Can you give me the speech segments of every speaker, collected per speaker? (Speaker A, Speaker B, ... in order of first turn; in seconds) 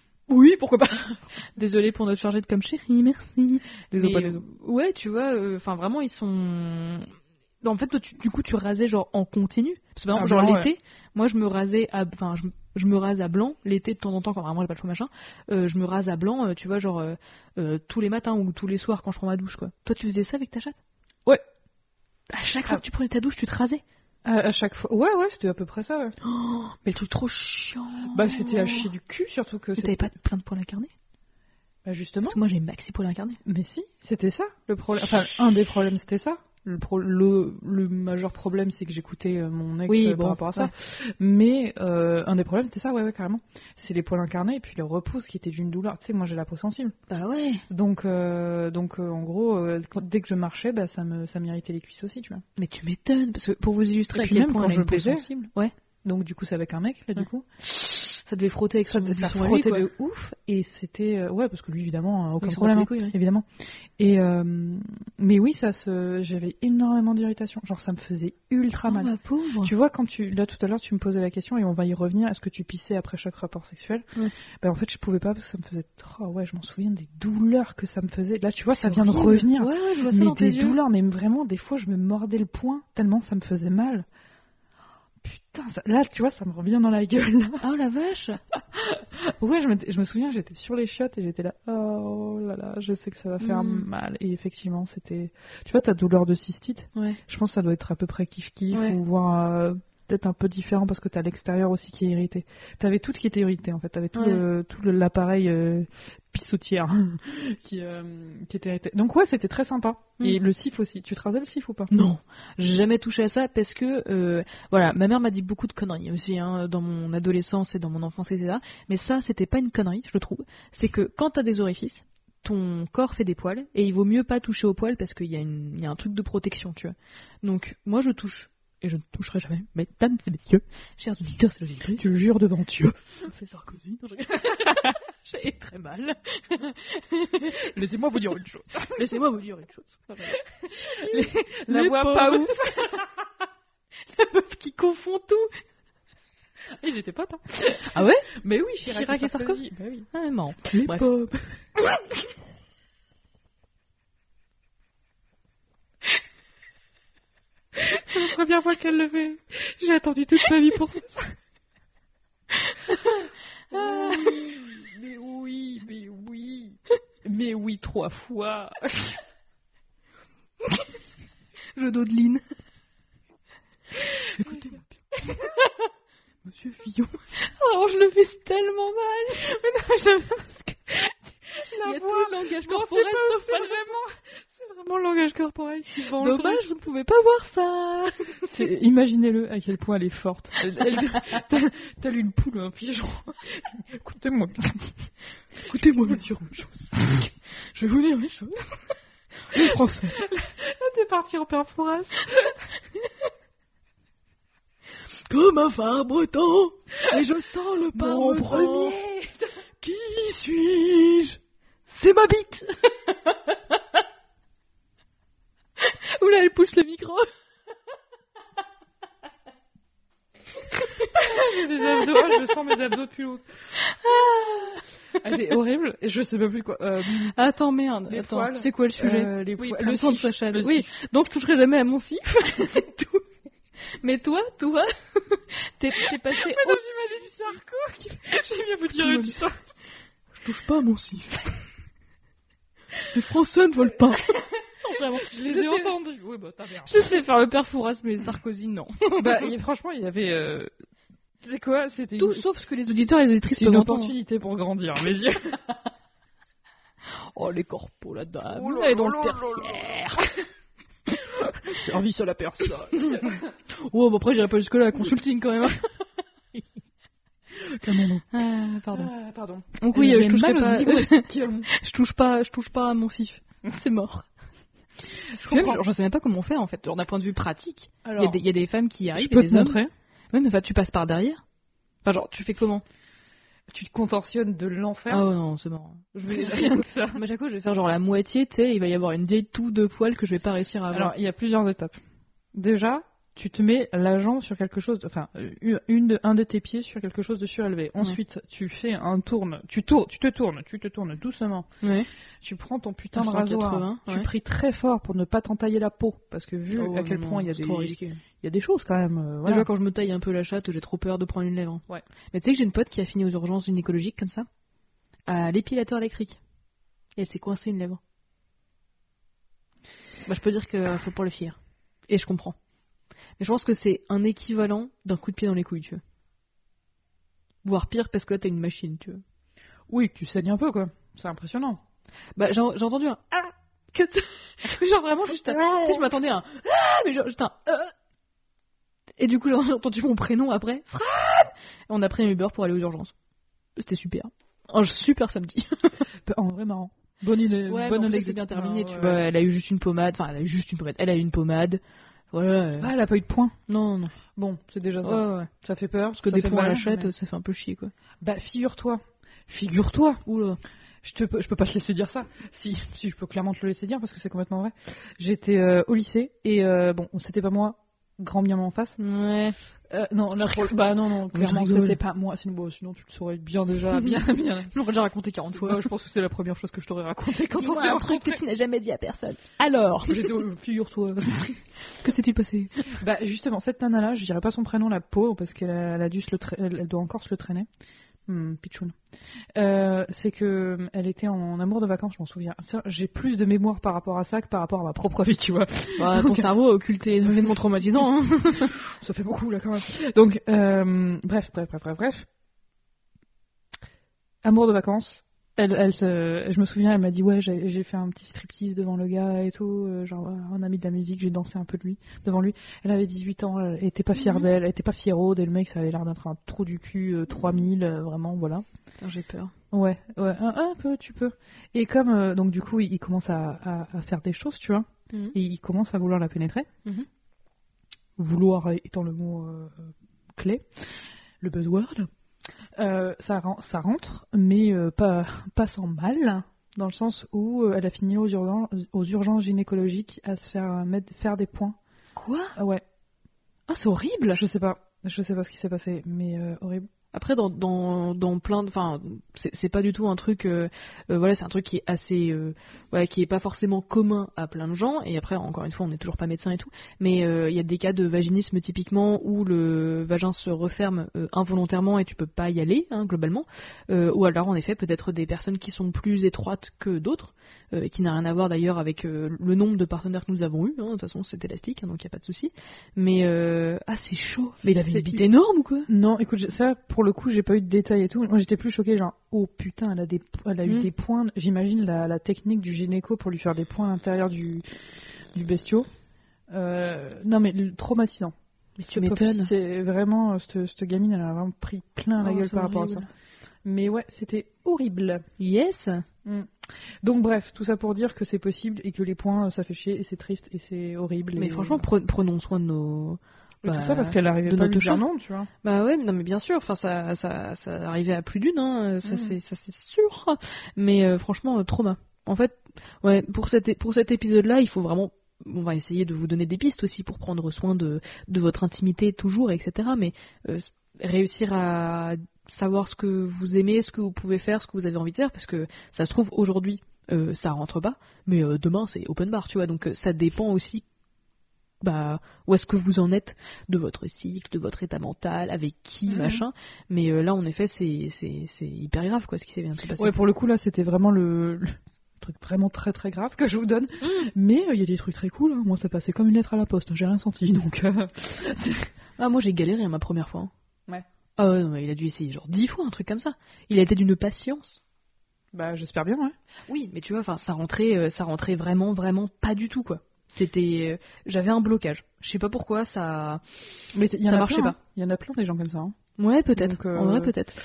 Speaker A: 0.3-20.8, 22.3-23.8, 26.2-28.9, 29.8-30.9, 32.2-33.4, 39.9-40.7, 47.1-47.6, 52.6-55.7, 58.1-59.9, 62.4-63.1, 68.8-69.7, 78.7-80.8, 87.6-88.4, 93.4-93.8, 98.7-99.0, 104.1-104.4, 111.9-132.1, 133.2-137.6, 138.9-143.0, 144.1-145.5, 147.7-148.3, 148.8-151.5, 163.8-164.3, 171.7-172.4, 174.3-175.8, 176.5-179.6, 180.5-181.1, 181.6-183.8, 185.9-188.5, 195.6-198.8, 199.5-200.2, 205.3-209.0, 209.8-212.9, 215.8-217.3, 220.8-222.3, 223.8-224.8, 227.2-233.2, 234.0-237.3, 238.9-239.4, 240.3-241.6, 243.0-244.4, 244.9-245.9, 246.8-249.5, 252.2-254.1, 257.3-260.3, 262.9-265.9, 268.3-269.1, 269.8-274.3, 275.3-279.8, 280.3-281.4, 282.0-282.8, 285.1-291.1, 301.8-302.1, 303.1-304.3, 306.7-308.2, 309.4-314.5, 315.3-316.4, 317.2-318.0, 320.2-321.6, 322.1-322.6, 323.4-326.0, 327.6-329.2, 332.4-337.9, 339.2-343.1, 343.8-346.1, 347.7-351.8, 352.3-352.9, 353.7-354.1, 355.0-355.5, 356.2-357.9, 360.2-360.6, 369.0-369.6, 370.4-372.0, 373.9-374.2, 374.7-375.9, 377.5-380.4, 381.9-383.0, 396.0-398.7, 419.0-419.5, 442.1-442.5, 443.7-444.4, 447.1-475.9, 488.8-489.5, 492.2-493.1, 495.4-496.1, 501.4-505.0, 505.6-530.8, 531.8-540.1, 549.2-550.5, 551.4-554.8, 556.7-563.4, 564.3-564.8, 566.2-567.5
Speaker B: 3.9-4.4, 10.1-10.7, 24.2-26.2, 28.1-30.1, 31.8-32.4, 33.4-47.0, 47.7-52.4, 54.1-55.3, 56.0-57.4, 58.9-63.5, 64.0-84.0, 85.2-87.6, 88.6-111.9, 132.0-133.0, 134.4-134.9, 137.4-139.2, 140.6-143.1, 146.8-150.1, 150.7-151.1, 151.8-152.1, 157.8-161.3, 162.9-169.2, 174.4-175.7, 179.4-180.7, 181.6-186.6, 188.4-195.0, 195.7-196.4, 199.5-202.6, 207.9-209.5, 221.1-223.4, 225.2-227.3, 228.1-230.9, 236.0-239.6, 244.2-247.2, 249.2-250.7, 251.4-252.4, 253.5-255.8, 258.5-260.1, 261.6-263.4, 267.6-268.4, 268.9-271.7, 275.4-275.8, 278.0-278.4, 279.1-279.9, 283.7-285.3, 286.2-287.2, 290.9-292.0, 292.5-301.7, 302.4-309.7, 329.9-331.8, 335.4-336.0, 346.2-349.2, 352.8-353.6, 354.1-357.1, 358.2-360.2, 361.0-369.0, 369.9-374.7, 375.5-378.4, 380.1-381.6, 382.9-387.7, 388.3-388.9, 389.5-396.5, 398.8-402.3, 404.4-418.6, 419.7-426.7, 428.2-430.9, 431.4-432.1, 432.8-441.8, 442.6-442.8, 444.3-446.9, 474.9-475.2, 475.9-484.6, 485.3-485.9, 486.5-493.1, 493.6-495.2, 496.2-501.9, 503.6-505.5, 509.1-509.4, 536.1-536.5, 540.0-548.9, 555.5-556.3, 563.9-566.0, 566.5-567.3